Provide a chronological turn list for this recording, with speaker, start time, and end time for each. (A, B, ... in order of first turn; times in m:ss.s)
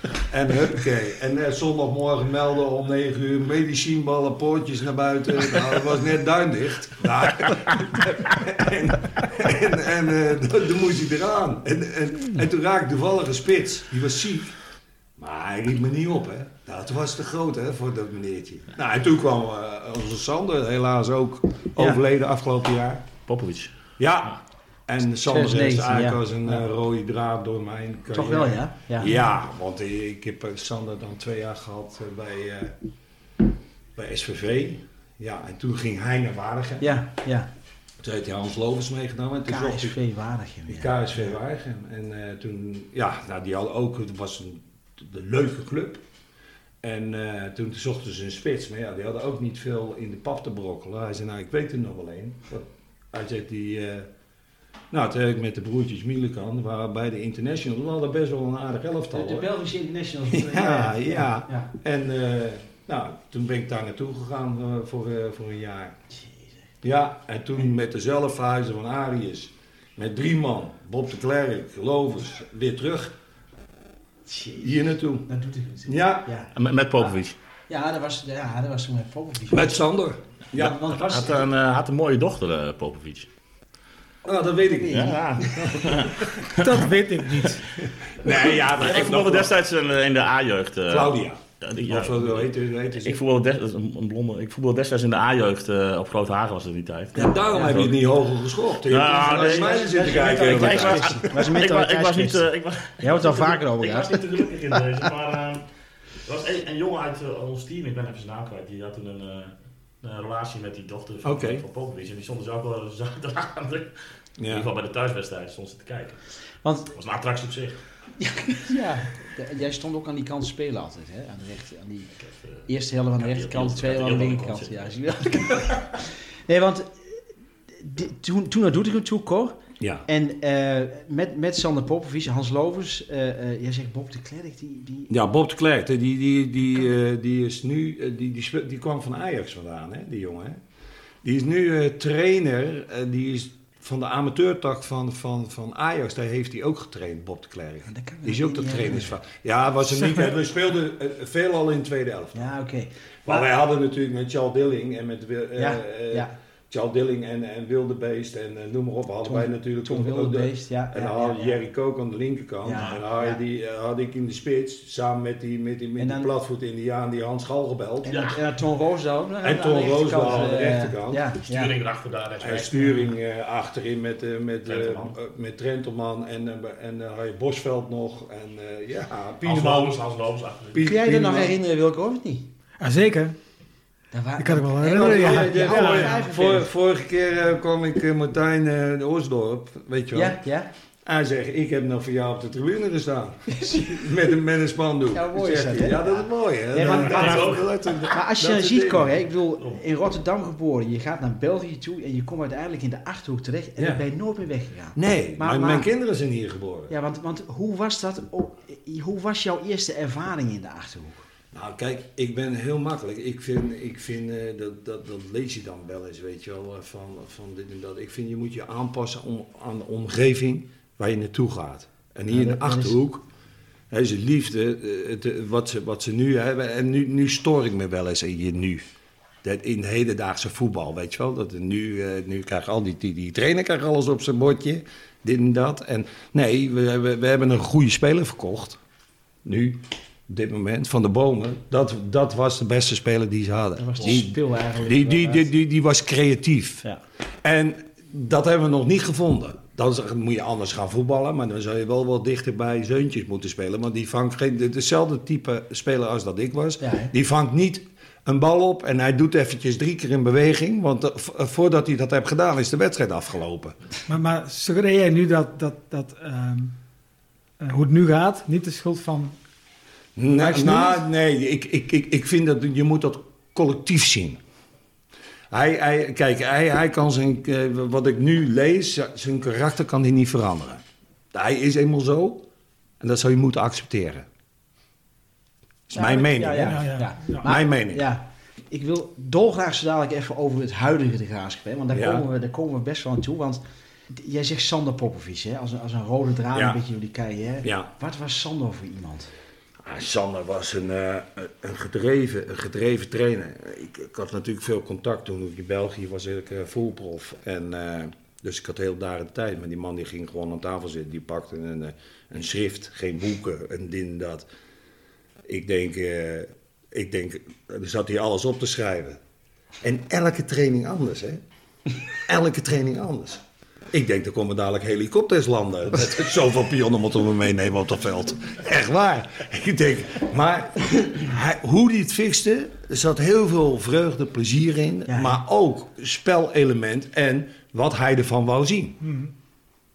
0:00.2-0:14.6 A
0:15.2-0:23.0 A
0:23.3-0:23.8 B
0:24.0-0:24.4 A
0:24.9-0:32.7 A
0:25.2-0:26.6 C
0:28.1-0:29.1 C
0:34.0-0:37.0 A
0:36.8-0:37.5 C
0:38.0-0:40.0 A
0:39.5-0:41.3 C
0:40.7-0:46.0 A
0:46.8-0:54.1 A
0:54.9-0:59.5 A
0:59.1-1:01.7 C
1:00.3-1:06.0 A
1:06.8-1:13.1 A
1:14.3-1:14.7 C
1:14.6-1:15.3 A
1:15.2-1:16.5 C
1:15.9-1:16.3 A
1:16.5-1:17.4 B
1:17.7-1:19.8 C
1:19.5-1:20.8 A
1:20.5-1:21.4 C
1:20.6-1:23.3 B
1:24.2-1:26.4 A
1:24.6-1:25.4 C
1:24.9-1:26.7 B
1:26.5-1:27.6 D
1:27.8-1:29.6 A
1:28.2-1:37.9 B
1:30.9-1:33.2 A
1:37.1-1:41.3 A
1:37.2-1:37.7 C
1:38.9-1:45.6 B
1:39.3-1:42.4 C
1:43.0-1:45.0 C
1:46.2-1:53.9 B
1:51.2-1:51.6 A
1:54.4-1:54.7 A
1:54.5-1:56.2 B
1:56.6-1:56.9 C
1:56.9-1:57.8 B
1:58.2-2:02.1 C
2:02.7-2:06.9 C
2:03.2-2:04.9 B
2:07.8-2:15.1 C
2:09.8-2:10.0 A
2:15.1-2:20.6 A
2:21.2-2:32.4 A
2:27.9-2:29.1 C
2:32.3-2:33.5 C
2:33.2-2:48.3 A
2:35.6-2:36.3 C
2:39.2-2:41.6 C
2:42.6-2:43.4 C
2:46.0-2:46.3 C
2:48.0-2:51.7 C
2:49.4-2:51.2 A
2:51.4-2:53.1 B
2:52.4-3:00.0 A
2:54.6-2:55.1 B
2:59.4-3:00.9 B
3:00.7-3:01.6 A
3:00.8-3:02.5 C
3:02.8-3:03.3 D
3:04.1-3:06.7 C
3:04.4-3:06.1 D
3:04.8-3:10.4 A
3:10.1-3:10.7 C
3:11.0-3:19.1 A
3:13.5-3:13.9 C
3:15.1-3:25.9 C
3:16.8-3:18.0 B
3:23.8-3:24.0 A
3:25.0-3:26.9 A
3:26.9-3:31.2 C
3:31.5-3:43.2 A
3:42.3-3:43.0 C
3:43.9-3:48.8 A
3:49.4-3:58.8 A
3:59.4-4:06.8 A
4:03.8-4:05.5 C
4:07.4-4:23.8 A
4:16.8-4:17.1 C
4:24.1-4:26.7 D
4:27.6-4:29.3 D
4:30.2-4:34.4 A
4:30.4-4:31.0 C
4:35.5-4:40.8 A
4:41.3-4:42.4 A
4:43.0-4:44.3 A
4:45.9-4:46.9 A
4:45.9-4:59.3 C
4:46.6-4:47.4 D
4:47.4-4:48.0 A
4:51.9-4:52.3 A
4:56.5-4:56.8 A
4:57.6-4:57.9 A
4:59.8-5:14.5 A
5:15.5-5:19.2 A
5:19.8-5:21.4 A
5:22.2-5:39.0 A
5:35.1-5:35.4 C